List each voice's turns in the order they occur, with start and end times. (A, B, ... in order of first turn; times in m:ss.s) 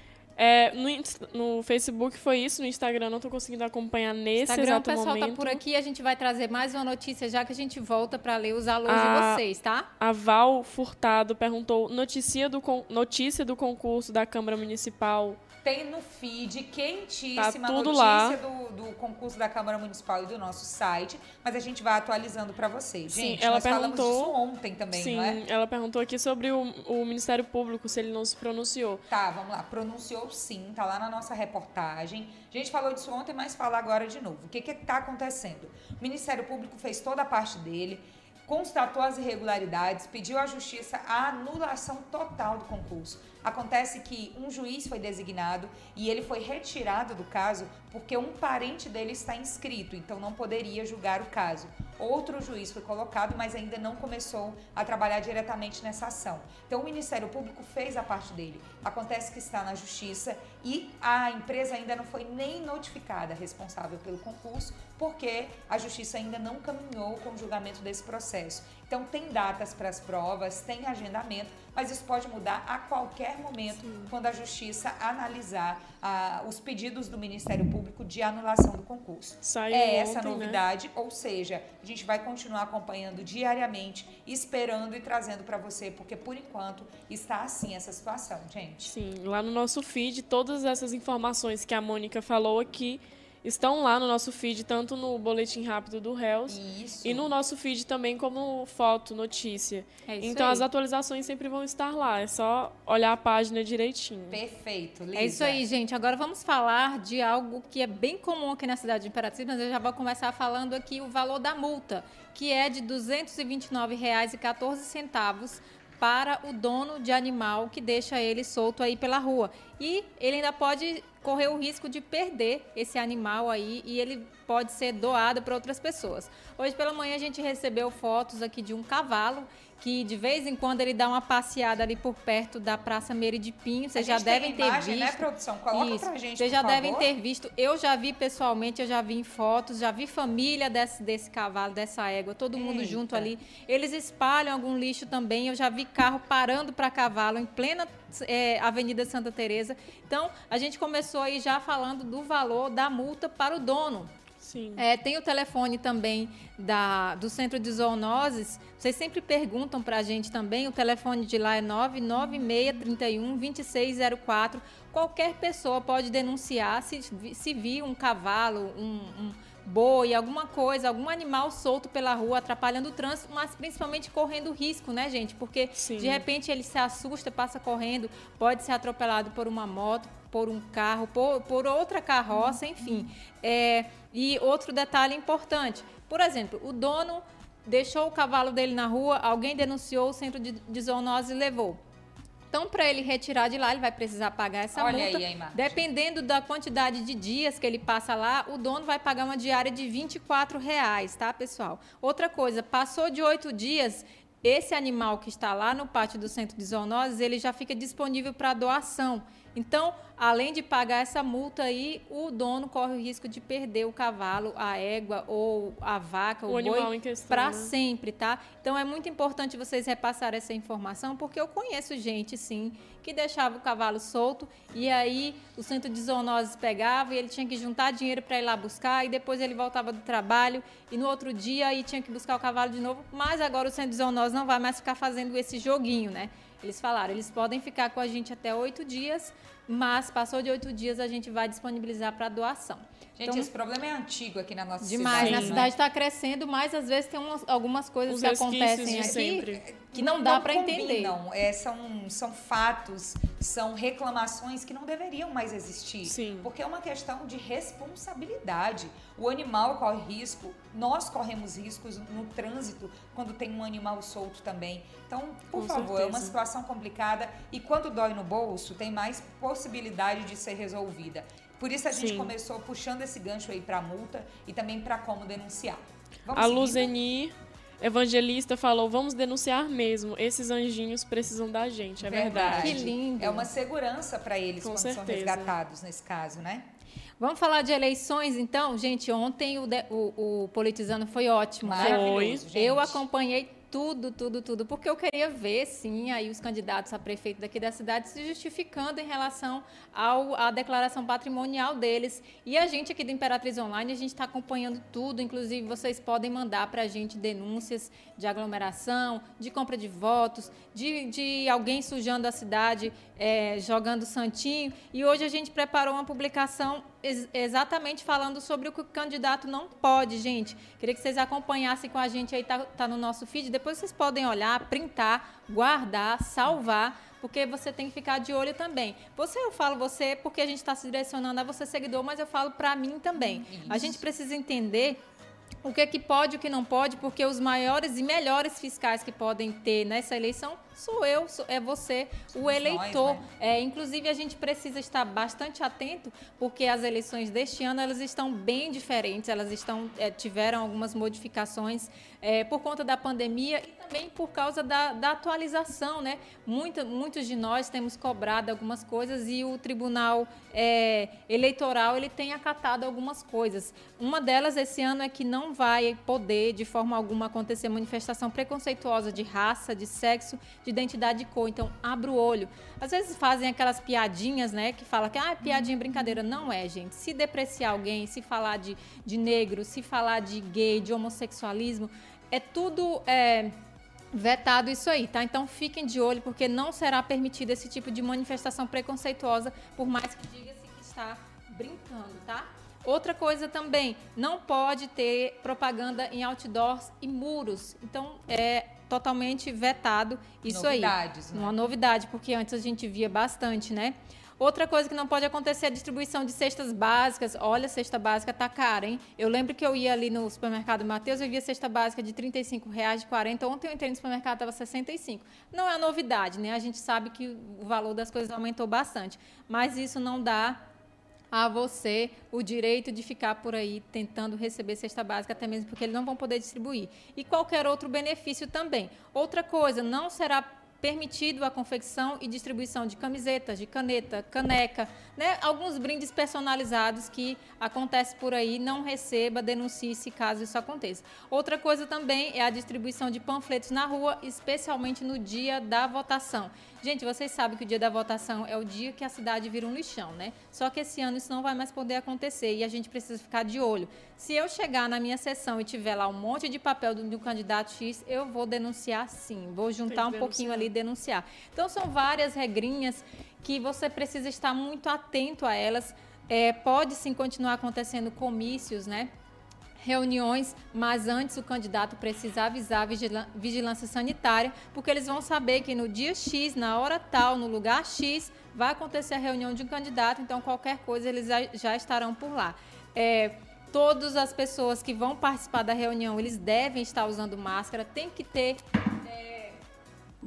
0:00.4-0:05.6 A
0:04.4-0:09.9 B
0:08.9-0:09.4 A
0:10.0-0:15.4 A
0:15.6-0:25.4 C
0:17.4-0:18.4 A
0:23.1-0:24.4 A
0:24.9-0:29.0 A
0:29.1-1:29.0 C
1:13.8-1:14.1 A
1:19.4-1:20.6 A
1:28.9-1:44.4 A
1:36.5-1:37.3 C
1:40.1-1:40.7 B
1:44.3-1:45.6 C
1:45.2-2:34.1 B
2:14.0-2:17.1 C
2:22.5-2:23.3 C
2:34.4-2:34.9 A
2:34.8-3:11.8 B
2:55.8-2:56.2 A
3:12.5-4:03.5 B
3:14.7-3:15.6 C
3:36.5-3:37.8 A
4:03.2-4:05.7 C
4:04.8-4:11.2 B
4:05.2-4:05.7 A
4:08.1-4:09.6 A
4:08.9-4:36.9 C
4:16.1-4:16.5 A
4:25.6-4:26.4 A
4:31.9-4:32.3 A
4:36.3-4:42.9 A
4:42.0-4:46.7 C
4:42.5-4:43.5 B
4:44.6-4:45.5 A
4:47.2-5:35.0 B
4:51.6-4:53.0 C
4:51.8-4:52.4 A
5:33.4-5:34.0 C
5:35.6-6:23.6 B
5:42.4-5:43.3 C
6:24.1-7:00.6 B
6:40.5-6:41.6 C
7:01.3-7:49.1 B
7:39.9-7:40.7 A
7:49.8-8:09.6 B